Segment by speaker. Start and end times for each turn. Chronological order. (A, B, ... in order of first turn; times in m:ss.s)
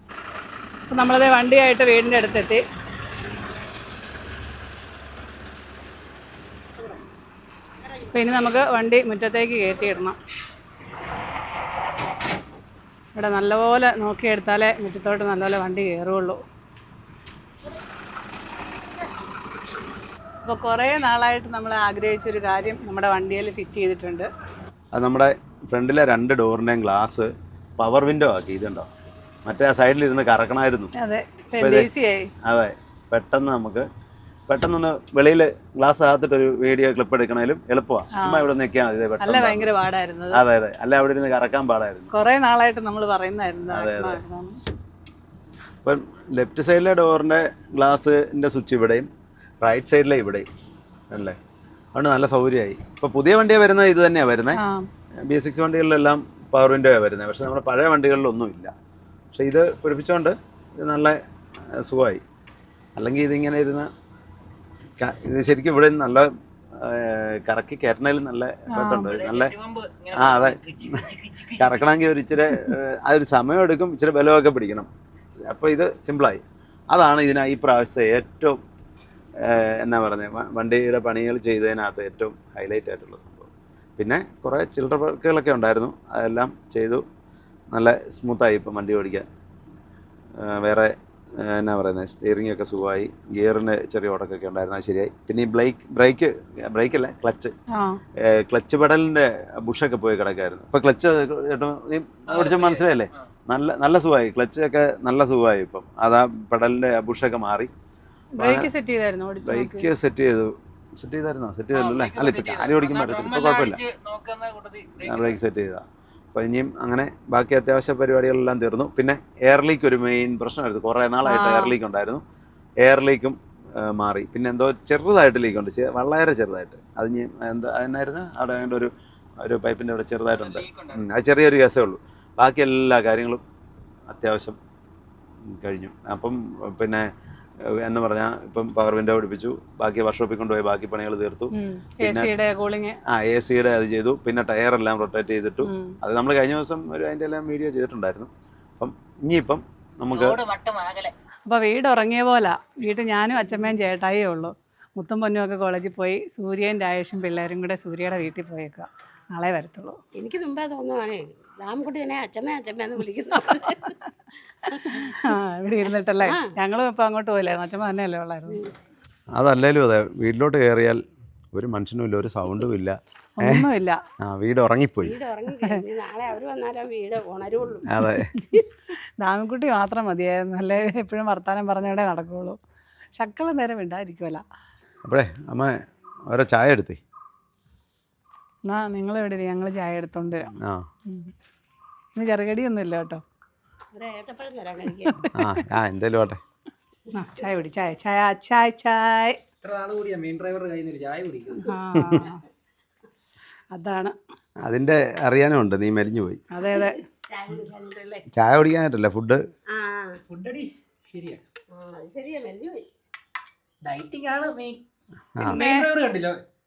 0:00.9-0:02.6 A
0:08.1-0:10.2 A
0:13.2-0:16.4 A
0:20.4-0:24.3 A
0:24.9-0:28.9 B
0:29.4-0:30.9 B
0:31.0-0:32.3 A
0:31.6-0:31.9 B
0:32.4-0:33.9 B
0:34.5-0:39.7 B
0:38.1-0:38.5 A
0:39.2-0:40.4 A
0:40.3-0:42.1 B
0:42.1-0:44.6 A
0:43.7-0:44.2 B
0:45.8-0:49.1 B
0:49.6-0:50.5 B
0:51.1-0:51.4 B
0:52.0-0:54.6 B
0:54.5-0:54.9 A
0:55.2-0:58.7 B
0:59.3-1:02.2 B
1:03.0-1:03.9 B
1:05.0-1:09.5 B
1:08.7-1:09.2 A
1:09.1-1:11.9 C
1:10.2-1:11.1 B
1:11.6-1:14.9 B
1:15.5-1:18.6 B
1:19.4-1:27.0 B
1:27.7-1:29.3 B
1:30.4-1:37.5 B
1:37.7-1:38.0 A
1:38.2-1:47.7 B
1:42.3-1:43.3 C
1:48.4-1:49.9 A
1:48.4-1:48.7 B
1:49.4-1:53.8 B
1:51.7-1:55.4 C
1:55.0-2:02.2 B
2:01.2-2:01.8 A
2:02.8-2:13.4 B
2:10.3-2:11.1 C
2:14.1-2:14.6 B
2:15.5-2:17.1 B
2:17.6-2:22.3 B
2:21.5-2:23.0 A
2:23.1-2:30.4 B
2:25.6-2:26.0 A
2:30.1-2:31.1 C
2:31.5-2:40.0 A
2:40.2-2:44.0 D
2:44.6-2:45.3 D
2:44.9-2:48.6 A
2:46.2-2:46.5 D
2:49.4-2:51.0 B
2:51.5-2:53.7 B
2:53.4-2:54.0 A
2:54.2-2:55.2 B
2:55.0-2:59.0 D
2:57.9-2:58.3 B
2:59.2-3:02.6 A
3:03.2-3:04.4 A
3:05.0-3:07.0 B
3:08.7-3:10.6 A
3:10.6-3:10.9 B
3:11.1-3:11.3 A
3:12.2-3:13.2 A
3:13.9-3:15.2 D
3:15.1-3:15.5 A
3:15.3-3:16.4 B
3:17.1-3:19.4 A
3:19.6-3:21.7 C
3:21.6-3:22.4 A
3:22.0-3:22.2 B
3:23.7-3:24.2 A
3:24.6-3:26.4 B
3:26.5-3:27.0 A
3:26.6-3:28.3 D
3:28.3-3:29.4 B
3:29.7-3:30.2 D
3:30.3-3:31.4 C
3:31.7-3:32.9 D
3:33.9-3:34.8 C
3:35.4-3:35.9 A
3:35.5-3:36.4 C